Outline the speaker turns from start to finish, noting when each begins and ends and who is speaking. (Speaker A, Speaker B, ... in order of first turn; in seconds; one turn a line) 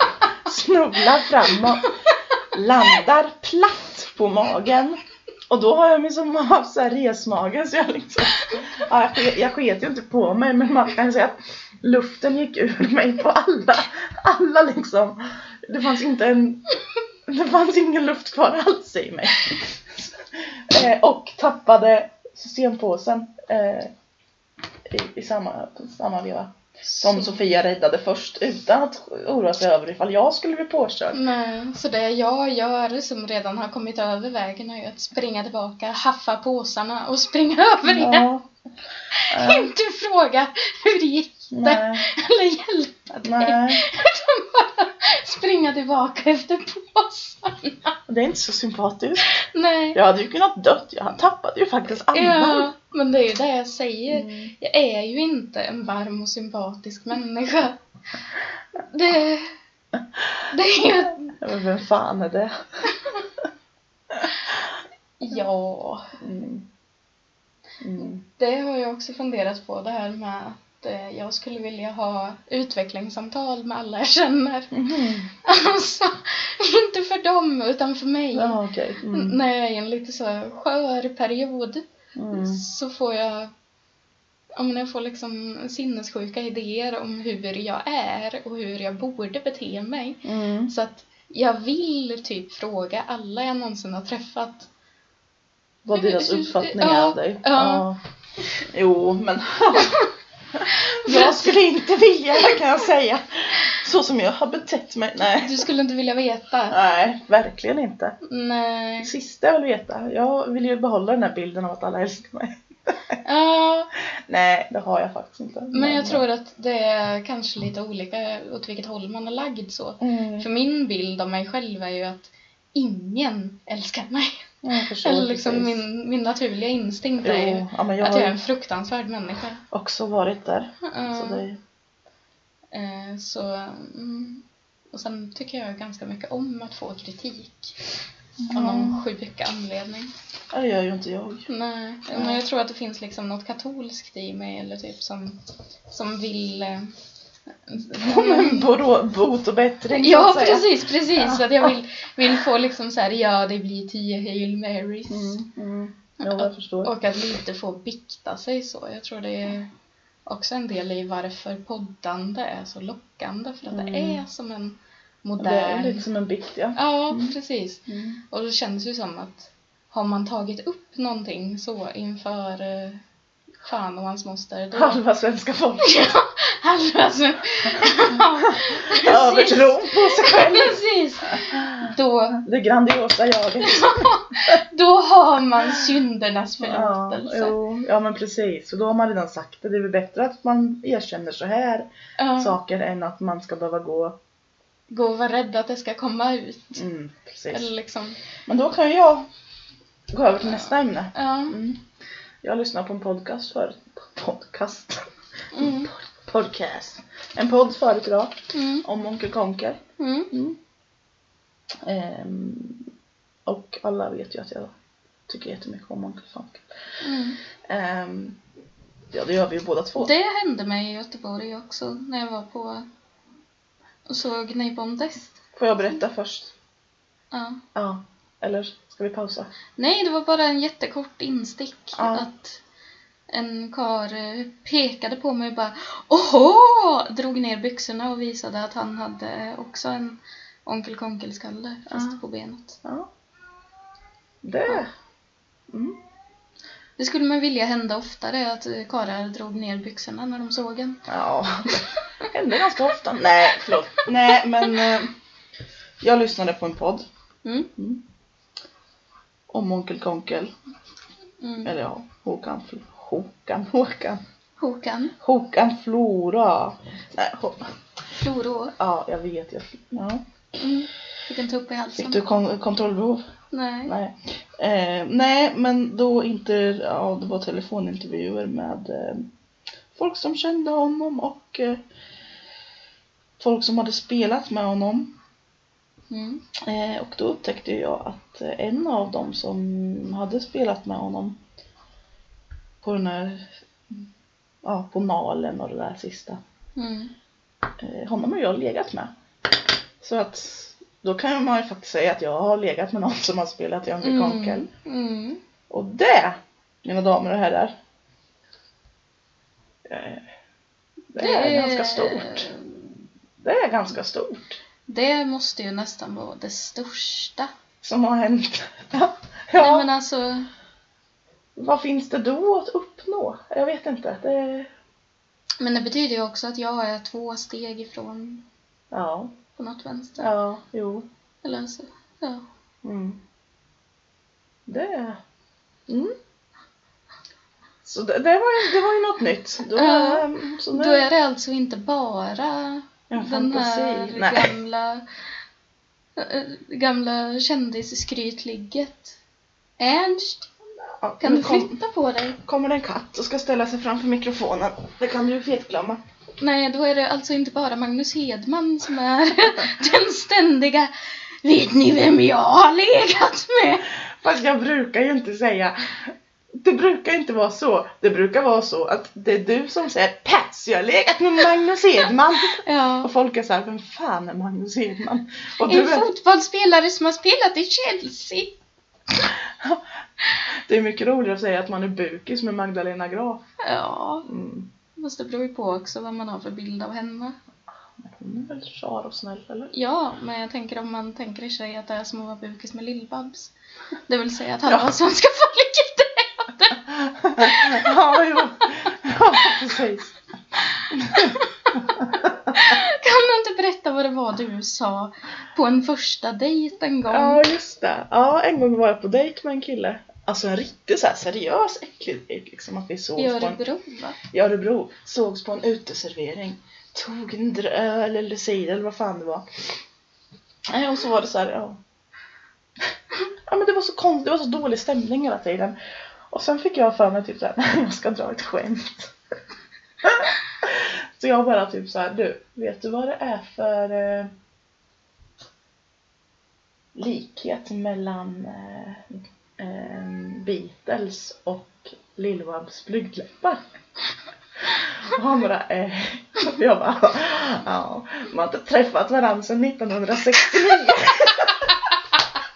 Speaker A: 0.2-16.8
Speaker A: 17.3-23.9
Speaker A: 24.9-31.2
Speaker B: 26.9-27.4
Speaker B: 31.1-38.3
Speaker A: 37.9-38.5
Speaker B: 39.1-47.9
Speaker A: 39.3-39.7
Speaker A: 41.5-42.1
Speaker A: 43.2-43.8
Speaker A: 48.1-49.4
Speaker B: 49.2-50.0
Speaker A: 49.9-52.7
Speaker B: 52.1-57.8
Speaker A: 54.1-54.5
Speaker B: 58.7-59.6
Speaker B: 60.5-61.4
Speaker A: 61.3-62.6
Speaker B: 62.9-63.2
Speaker A: 64.1-64.5
Speaker B: 65.2-66.2
Speaker A: 66.2-66.7
Speaker A: 67.8-68.2
Speaker B: 68.2-74.8
Speaker A: 74.7-75.3
Speaker B: 75.4-78.6
Speaker A: 78.3-79.4
Speaker B: 79.1-83.5
Speaker A: 82.2-82.6
Speaker B: 84.6-94.7
Speaker A: 90.2-90.7
Speaker A: 95.8-98.0
Speaker B: 95.9-97.8
Speaker A: 98.6-105.7
Speaker B: 99.8-100.1
Speaker B: 100.7-101.5
Speaker B: 105.4-106.8
Speaker A: 106.7-108.2
Speaker B: 108.2-109.1
Speaker A: 109.0-113.2
Speaker B: 113.2-113.9
Speaker A: 114.0-116.2
Speaker B: 115.7-124.5
Speaker A: 120.0-120.5
Speaker A: 124.6-125.8
Speaker B: 125.0-129.6
Speaker A: 127.2-128.4
Speaker A: 129.7-131.6
Speaker B: 130.8-131.4
Speaker B: 132.7-137.8
Speaker A: 138.4-139.0
Speaker B: 138.5-140.1
Speaker A: 140.5-141.5
Speaker B: 141.5-146.9
Speaker A: 142.1-142.4
Speaker B: 147.7-148.7
Speaker A: 148.0-151.7
Speaker B: 149.9-155.4
Speaker A: 155.1-156.9
Speaker B: 156.2-159.7
Speaker B: 160.3-166.1
Speaker A: 163.7-164.2
Speaker A: 165.4-167.3
Speaker B: 166.8-173.0
Speaker A: 167.9-168.2
Speaker B: 173.6-175.0
Speaker A: 174.7-176.1
Speaker B: 175.8-182.4
Speaker A: 178.1-180.8
Speaker A: 181.4-184.1
Speaker B: 183.6-187.6
Speaker A: 186.6-194.2
Speaker B: 192.2-192.6
Speaker B: 194.9-196.8
Speaker A: 196.8-197.7
Speaker B: 197.5-198.2
Speaker A: 198.5-199.3
Speaker A: 200.1-201.8
Speaker B: 201.1-201.6
Speaker A: 202.4-209.8
Speaker B: 205.5-205.9
Speaker B: 208.5-208.8
Speaker B: 210.0-210.3
Speaker A: 210.3-210.6
Speaker A: 211.8-212.8
Speaker A: 213.5-214.7
Speaker A: 215.3-216.7
Speaker B: 217.0-217.4
Speaker A: 217.7-218.4
Speaker A: 219.1-220.1
Speaker B: 220.0-222.9
Speaker B: 224.1-225.4
Speaker A: 225.6-226.5
Speaker B: 227.3-227.6
Speaker A: 227.8-229.5
Speaker B: 229.8-232.6
Speaker A: 232.0-232.3
Speaker B: 233.3-242.8
Speaker A: 241.9-242.2
Speaker A: 242.8-243.1
Speaker A: 244.4-244.9
Speaker A: 245.7-246.0
Speaker B: 247.0-251.1
Speaker A: 251.1-255.1
Speaker B: 251.7-252.3
Speaker A: 256.0-257.1
Speaker B: 257.4-257.7
Speaker A: 257.8-258.0
Speaker A: 259.5-260.5
Speaker B: 261.4-261.7
Speaker A: 261.6-264.2
Speaker B: 264.6-265.1
Speaker A: 265.2-267.7
Speaker B: 268.1-268.7
Speaker A: 268.8-270.3
Speaker B: 270.6-272.3
Speaker A: 272.0-273.2
Speaker B: 273.5-274.0
Speaker A: 273.9-279.3
Speaker A: 279.9-281.8
Speaker A: 283.4-285.1
Speaker B: 286.1-286.5
Speaker A: 286.6-291.4
Speaker A: 292.8-293.5
Speaker A: 294.6-296.4
Speaker B: 296.8-297.1
Speaker A: 297.8-299.1
Speaker A: 300.0-304.7
Speaker B: 304.0-305.4
Speaker A: 305.7-307.8
Speaker A: 309.9-310.2
Speaker A: 311.1-312.5
Speaker B: 311.2-312.6
Speaker A: 313.4-314.6
Speaker B: 314.9-317.5
Speaker A: 317.8-319.9
Speaker B: 319.6-320.5
Speaker A: 321.6-324.7
Speaker B: 325.6-328.4
Speaker A: 328.9-329.3
Speaker B: 329.6-330.3
Speaker A: 330.2-331.1
Speaker B: 331.4-332.4
Speaker A: 332.8-333.2
Speaker A: 334.7-335.2
Speaker A: 335.9-336.1
Speaker A: 337.8-341.1
Speaker B: 339.7-345.1
Speaker A: 343.1-344.5
Speaker B: 346.2-349.2
Speaker B: 349.8-350.5
Speaker A: 351.0-351.8
Speaker B: 351.2-352.4
Speaker A: 352.4-356.0
Speaker B: 356.4-360.9
Speaker B: 361.4-363.9
Speaker A: 364.0-376.1
Speaker B: 372.6-373.1
Speaker B: 375.6-378.6
Speaker A: 379.6-379.8
Speaker A: 380.5-383.4
Speaker B: 383.6-384.3
Speaker A: 384.2-384.7
Speaker B: 385.0-387.4
Speaker A: 388.0-389.7
Speaker B: 389.7-393.5
Speaker B: 394.1-398.7
Speaker A: 394.7-394.9
Speaker A: 396.9-400.2
Speaker B: 400.7-401.6
Speaker A: 400.9-402.5
Speaker B: 402.5-407.4
Speaker A: 407.1-413.6
Speaker B: 413.2-414.2
Speaker A: 414.2-419.4
Speaker A: 420.7-421.8
Speaker A: 423.4-425.8
Speaker A: 426.3-429.1
Speaker A: 430.0-434.3
Speaker A: 436.9-443.6
Speaker A: 444.6-451.7